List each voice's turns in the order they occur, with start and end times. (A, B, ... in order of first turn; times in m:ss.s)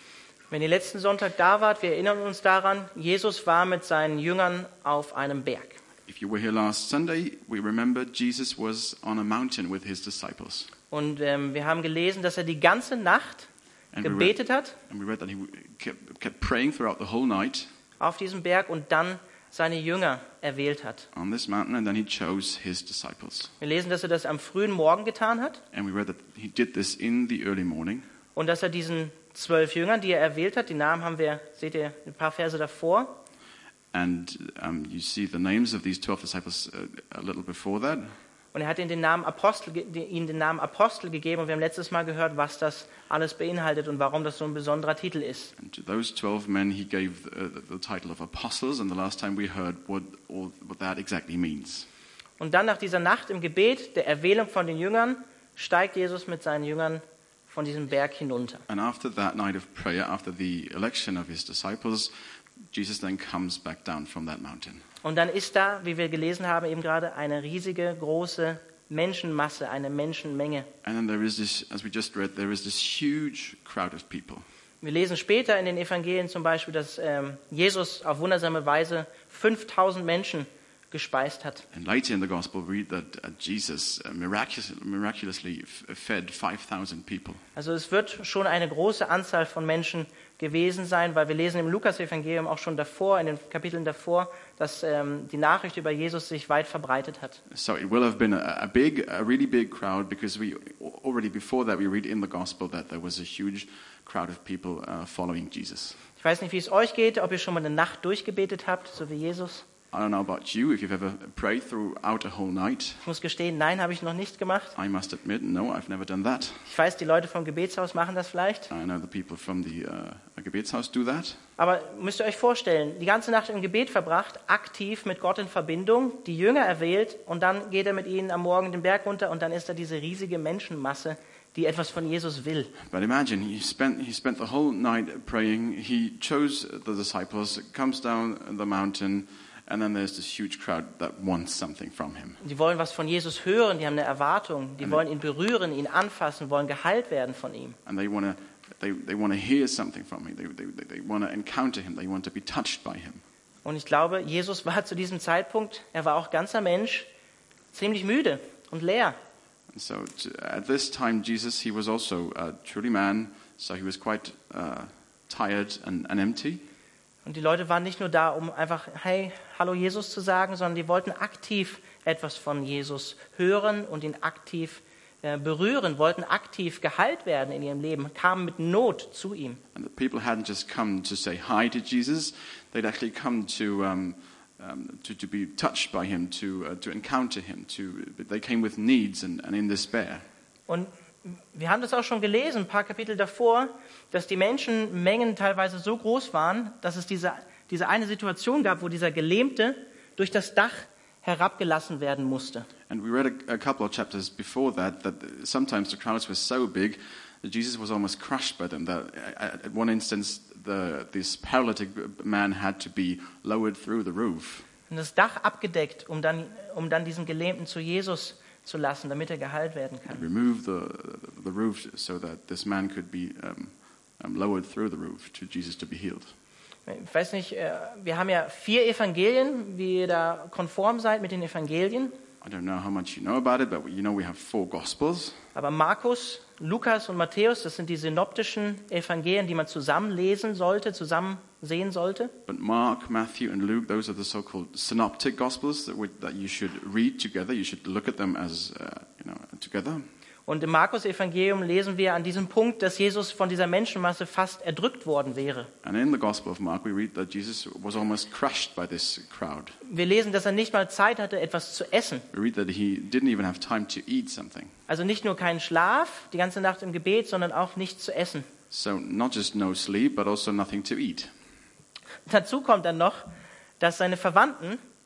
0:00.5-0:05.8 A
0:06.0-0:10.7 B
0:10.9-0:13.5 A
0:13.9-0:14.3 B
0:14.0-0:14.8 A
0:14.8-0:17.7 B
0:18.0-0:21.1 A
0:21.1-0:23.5 B
0:23.6-0:25.6 A
0:25.7-0:28.0 B
0:28.4-0:33.2 A
0:33.9-0:38.1 B
0:38.5-0:45.5 A
0:45.6-0:51.9 B
0:52.4-0:58.6 A
0:58.7-1:02.1 B
1:02.7-1:04.8 B
1:05.0-1:10.7 A
1:10.8-1:14.4 B
1:14.8-1:21.6 A
1:21.7-1:27.4 B
1:27.6-1:37.4 A
1:37.5-1:46.0 B
1:46.2-1:49.6 A
1:49.9-1:53.0 B
1:53.0-1:54.8 A
1:54.8-1:56.7 B
1:56.6-1:58.7 A
1:58.7-2:01.4 B
2:01.6-2:12.7 A
2:12.8-2:22.4 B
2:22.4-2:27.8 A
2:27.8-2:33.2 B
2:33.6-2:37.1 A
2:37.7-2:39.2 A
2:39.7-2:46.6 B
2:47.2-2:59.6 A
2:59.7-3:10.2 B
3:10.7-3:22.7 A
3:22.9-3:34.6 B
3:34.9-3:40.2 A
3:40.1-3:46.3 B
3:46.8-3:52.1 A
3:52.4-3:55.4 B
3:55.5-4:02.3 A
4:02.4-4:10.0 B
4:10.5-4:15.7 A
4:15.8-4:19.8 B
4:19.8-4:22.3 A
4:22.3-4:24.7 B
4:24.9-4:28.5 A
4:28.7-4:31.3 B
4:32.3-4:33.2 A
4:33.8-4:34.8 A